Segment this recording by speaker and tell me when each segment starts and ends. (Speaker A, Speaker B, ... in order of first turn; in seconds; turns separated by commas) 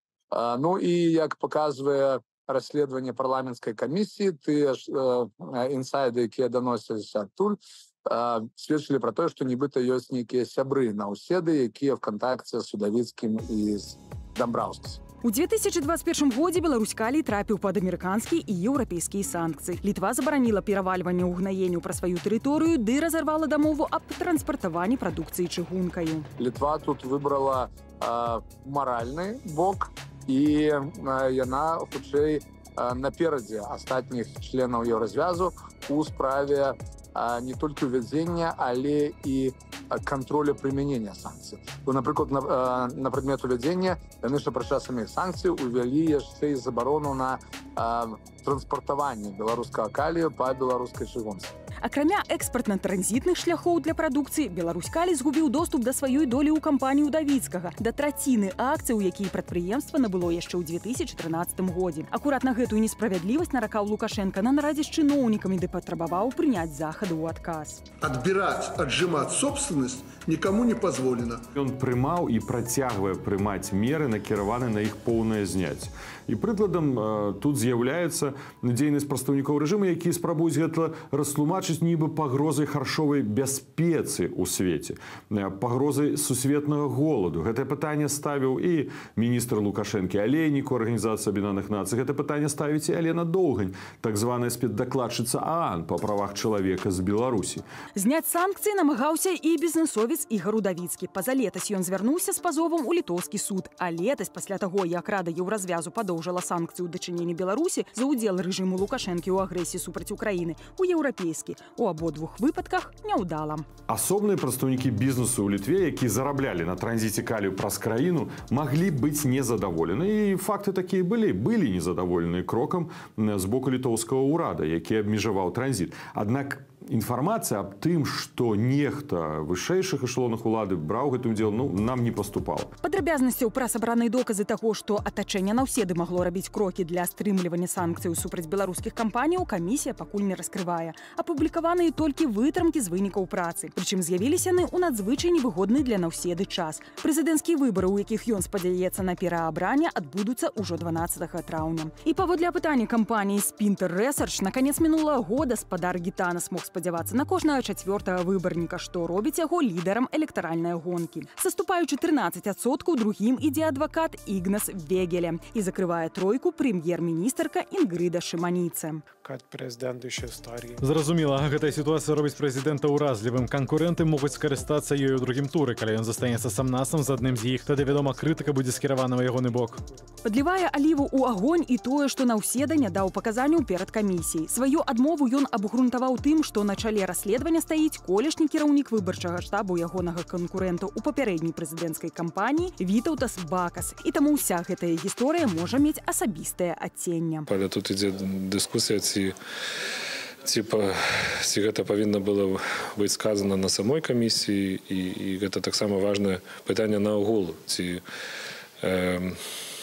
Speaker A: 0.3-15.0, Speaker B: 15.2-26.3, Speaker A: 26.4-51.5, Speaker B: 51.8-67.8, Speaker C: 68.0-71.4, Speaker D: 71.5-97.6, Speaker B: 97.9-113.7, Speaker D: 113.9-132.7, Speaker B: 132.8-169.0, Speaker E: 169.2-172.6, Speaker F: 170.8-179.8, Speaker E: 174.1-175.5, Speaker E: 176.2-180.2, Speaker B: 180.2-197.5, Speaker G: 197.5-199.3, Speaker G: 200.4-208.0, Speaker G: 208.8-209.4